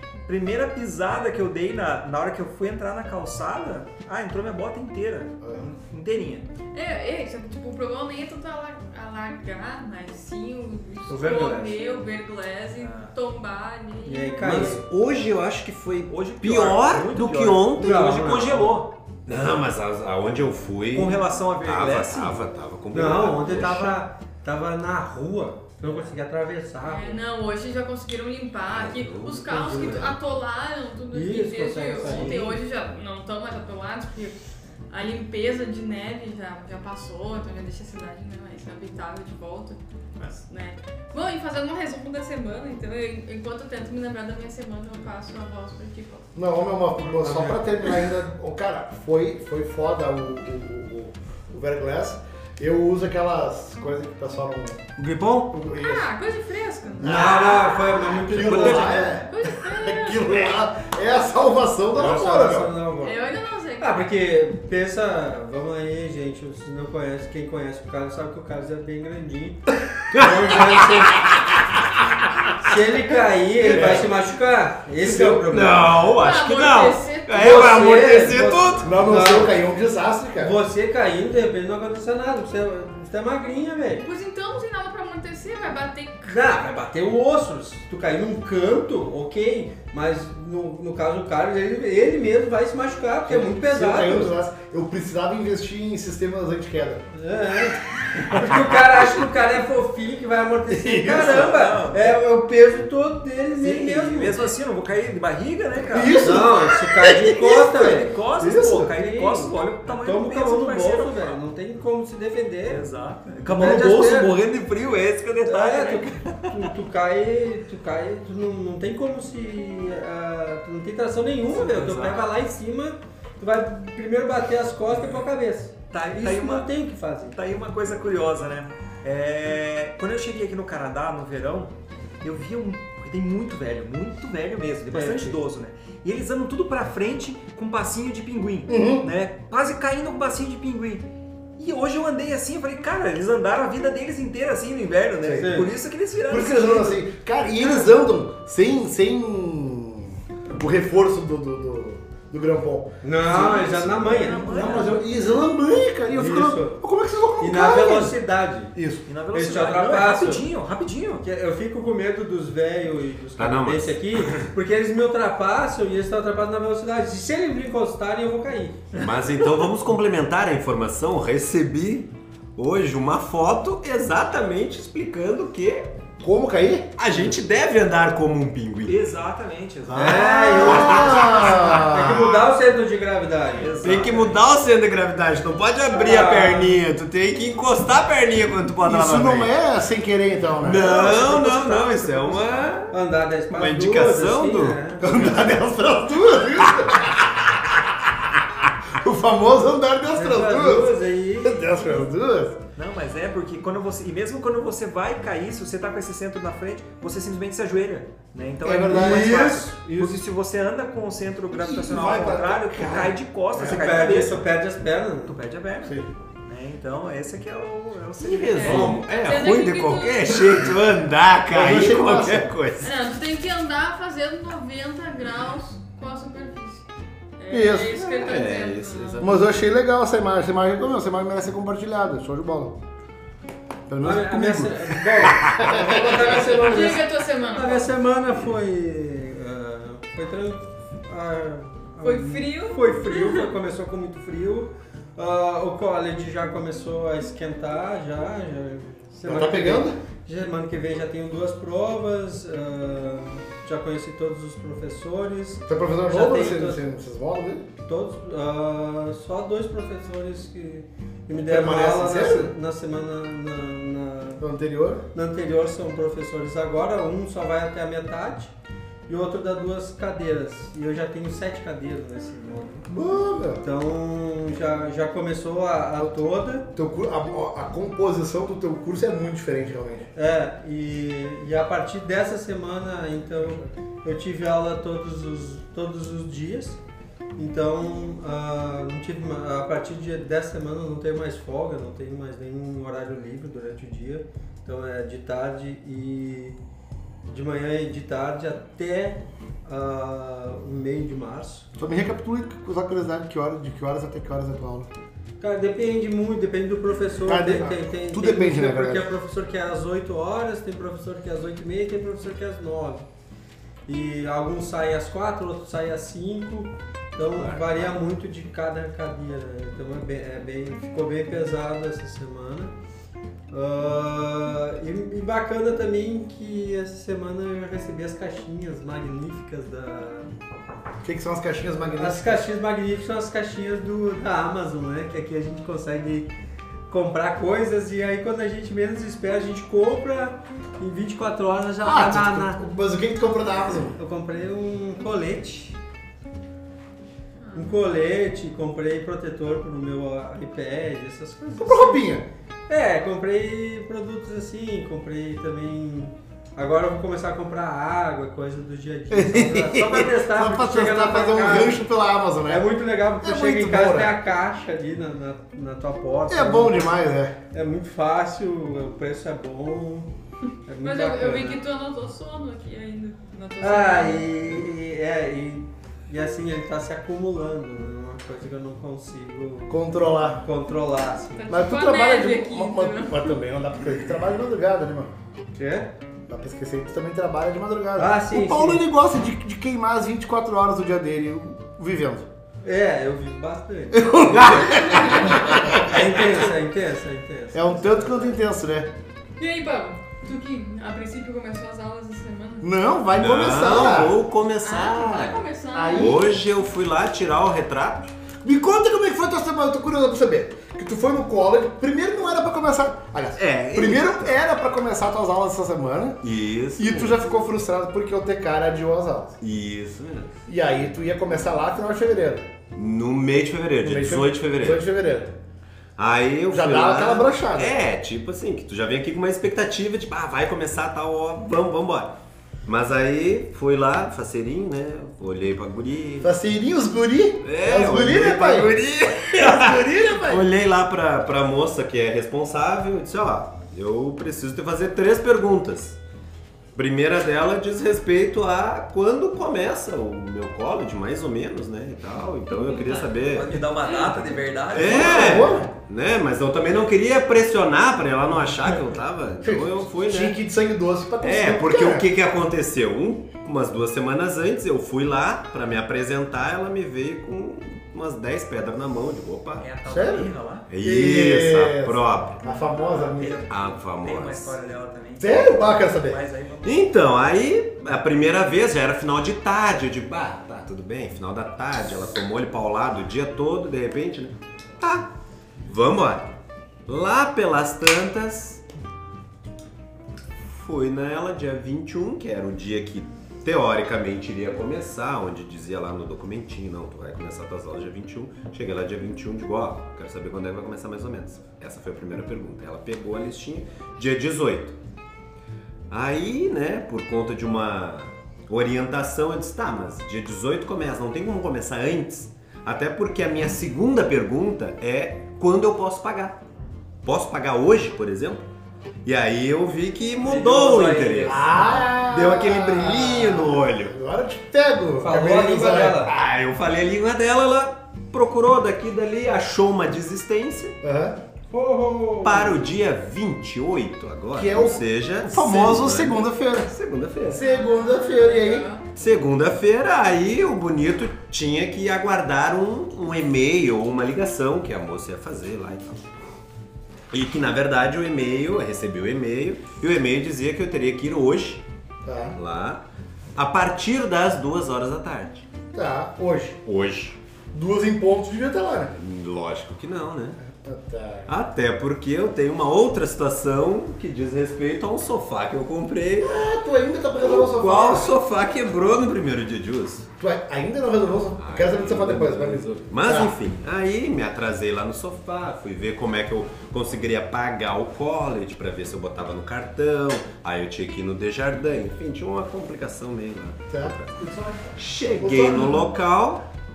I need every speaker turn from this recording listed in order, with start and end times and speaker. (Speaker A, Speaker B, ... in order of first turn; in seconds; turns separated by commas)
Speaker A: 0.3-6.5, Speaker B: 5.4-5.7, Speaker C: 6.7-14.5, Speaker D: 11.1-11.9, Speaker A: 12.8-13.1, Speaker D: 14.1-14.9, Speaker E: 14.4-18.6, Speaker A: 16.1-18.9, Speaker D: 17.8-18.8, Speaker E: 19.2-24.0, Speaker A: 20.9-22.4, Speaker D: 22.9-27.2, Speaker A: 23.4-23.8, Speaker A: 25.8-26.1, Speaker C: 26.9-46.3, Speaker E: 28.7-30.1, Speaker D: 29.5-30.1, Speaker D: 31.1-32.6, Speaker B: 46.4-55.0, Speaker D: 47.1-47.6, Speaker E: 55.0-55.5, Speaker B: 55.5-56.1, Speaker C: 55.7-58.1, Speaker D: 57.0-59.0, Speaker B: 57.0-62.8, Speaker E: 58.3-59.2, Speaker A: 58.4-59.1, Speaker C: 59.3-60.6, Speaker D: 62.0-63.3, Speaker C: 63.0-64.1, Speaker D: 63.8-71.2, Speaker E: 70.1-71.3, Speaker D: 72.6-76.0, Speaker B: 73.6-74.1, Speaker E: 73.7-74.0, Speaker B: 75.0-75.5, Speaker E: 75.5-79.0, Speaker C: 76.1-77.9, Speaker D: 77.4-79.6, Speaker B: 77.4-77.7, Speaker B: 78.8-80.6, Speaker D: 80.4-84.0, Speaker C: 84.0-86.4, Speaker D: 86.2-94.3, Speaker B: 93.2-97.1, Speaker D: 97.1-104.5, Speaker B: 100.7-101.6, Speaker A: 101.0-102.1, Speaker A: 103.6-106.4, Speaker B: 105.9-108.9, Speaker D: 106.2-108.1, Speaker A: 107.4-111.4, Speaker D: 108.9-112.8, Speaker A: 112.7-116.7, Speaker D: 113.5-114.4, Speaker D: 115.5-127.4, Speaker A: 121.5-122.3, Speaker A: 125.9-126.7, Speaker A: 127.3-147.0, Speaker D: 134.9-135.4, Speaker B: 138.7-139.1, Speaker B: 145.2-145.5, Speaker D: 145.3-145.8, Speaker B: 146.3-153.5, Speaker A: 147.6-148.0, Speaker D: 153.0-154.9, Speaker A: 153.2-155.4, Speaker B: 154.4-158.2, Speaker D: 156.1-156.8, Speaker D: 157.4-158.7, Speaker B: 158.8-159.1, Speaker A: 159.1-161.2, Speaker D: 159.3-160.5, Speaker D: 161.2-168.8, Speaker E: 163.4-164.5, Speaker E: 168.9-175.9, Speaker B: 176.2-176.9, Speaker E: 177.0-179.0, Speaker A: 178.9-181.6, Speaker E: 179.9-181.7, Speaker D: 179.9-183.8, Speaker B: 180.3-182.4, Speaker A: 183.6-184.4, Speaker E: 183.8-189.5, Speaker D: 185.9-186.8, Speaker B: 188.8-190.9, Speaker E: 190.6-193.0, Speaker A: 190.7-192.7, Speaker D: 191.0-191.3, Speaker D: 192.9-195.2, Speaker E: 193.5-194.8, Speaker B: 195.0-198.1, Speaker B: 198.9-202.6, Speaker D: 200.1-201.8, Speaker A: 202.8-214.4, Speaker B: 208.6-210.2, Speaker D: 208.9-209.8, Speaker B: 211.5-213.8, Speaker D: 213.6-215.4, Speaker A: 215.3-219.0, Speaker E: 218.2-222.9, Speaker C: 218.5-220.5, Speaker B: 221.5-222.5, Speaker C: 222.8-229.4, Speaker B: 227.5-228.0, Speaker E: 227.9-229.4, Speaker B: 229.2-232.8, Speaker B: 233.9-236.8, Speaker D: 234.0-256.8, Speaker C: 236.5-237.9, Speaker C: 242.0-243.5, Speaker B: 249.2-250.0, Speaker B: 255.7-257.7, Speaker D: 257.8-264.4, Speaker B: 261.4-262.5, Speaker B: 264.4-265.0, Speaker D: 265.1-268.5, Speaker D: 269.1-272.9, Speaker B: 272.9-273.6, Speaker D: 273.6-276.7, Speaker B: 276.7-280.1, Speaker D: 280.1-286.8, Speaker D: 287.4-296.6, Speaker D: 297.3-301.7, Speaker B: 301.8-304.9, Speaker D: 305.4-313.1, Speaker B: 307.2-309.1, Speaker D: 313.9-322.7, Speaker E: 317.2-317.9, Speaker D: 323.5-330.4, Speaker B: 331.0-332.5, Speaker D: 331.9-336.3, Speaker D: 336.9-342.6, Speaker B: 341.8-344.0, Speaker D: 344.0-345.8, Speaker C: 347.4-347.8, Speaker D: 347.5-352.1, Speaker B: 351.6-352.3, Speaker D: 352.7-361.9, Speaker B: 359.1-362.7, Speaker D: 362.5-366.9, Speaker B: 363.2-364.1, Speaker B: 366.3-367.4, Speaker D: 367.5-370.1, Speaker D: 370.7-371.6, Speaker C: 370.8-374.4, Speaker D: 373.6-381.5, Speaker B: 379.7-380.4, Speaker C: 381.4-383.4, Speaker B: 381.5-385.1, Speaker D: 385.5-385.9, Speaker B: 386.3-392.3, Speaker D: 388.0-388.8, Speaker D: 392.6-398.4, Speaker B: 393.9-396.4, Speaker B: 397.5-398.9, Speaker C: 399.4-402.7, Speaker B: 402.6-404.2, Speaker E: 403.1-408.1, Speaker C: 404.6-406.2, Speaker B: 405.7-406.4, Speaker B: 408.4-416.2, Speaker E: 413.4-414.4, Speaker E: 416.2-417.3, Speaker B: 416.8-419.4, Speaker E: 419.4-420.3, Speaker B: 420.5-422.5, Speaker E: 422.7-424.8, Speaker B: 423.8-425.4, Speaker E: 426.0-436.3, Speaker B: 426.5-427.8, Speaker B: 436.2-438.8, Speaker E: 437.4-446.0, Speaker B: 439.3-440.5, Speaker E: 446.8-453.6, Speaker A: 452.9-455.6, Speaker E: 454.7-460.4, Speaker B: 454.8-455.7, Speaker B: 459.4-462.1, Speaker E: 461.2-469.7, Speaker A: 469.6-470.7, Speaker B: 469.9-473.5, Speaker E: 470.7-472.4, Speaker A: 472.7-476.9, Speaker E: 473.5-474.6, Speaker B: 475.2-476.2, Speaker E: 476.6-486.3, Speaker E: 486.9-488.6, Speaker E: 490.4-504.8, Speaker E: 505.9-516.4, Speaker E: 517.0-518.5, Speaker E: 519.0-523.9, Speaker A: 520.2-521.9, Speaker B: 521.3-526.1, Speaker D: 525.0-526.1, Speaker E: 526.0-530.8, Speaker B: 530.8-531.2, Speaker D: 531.5-532.6, Speaker E: 532.2-537.4, Speaker B: 534.3-536.7, Speaker B: 537.2-538.7, Speaker C: 537.3-538.9, Speaker E: 539.0-546.0, Speaker E: 547.1-551.6, Speaker B: 552.0-552.4, Speaker E: 552.4-552.9, Speaker E: 553.4-555.5, Speaker B: 555.7-556.6, Speaker E: 556.6-557.2, Speaker B: 557.5-559.0, Speaker E: 559.0-560.4, Speaker B: 560.4-561.3, Speaker E: 561.3-566.3, Speaker B: 566.2-568.1, Speaker E: 567.2-570.1, Speaker B: 570.2-573.4, Speaker E: 571.4-584.1, Speaker B: 583.7-585.9, Speaker E: 584.8-586.4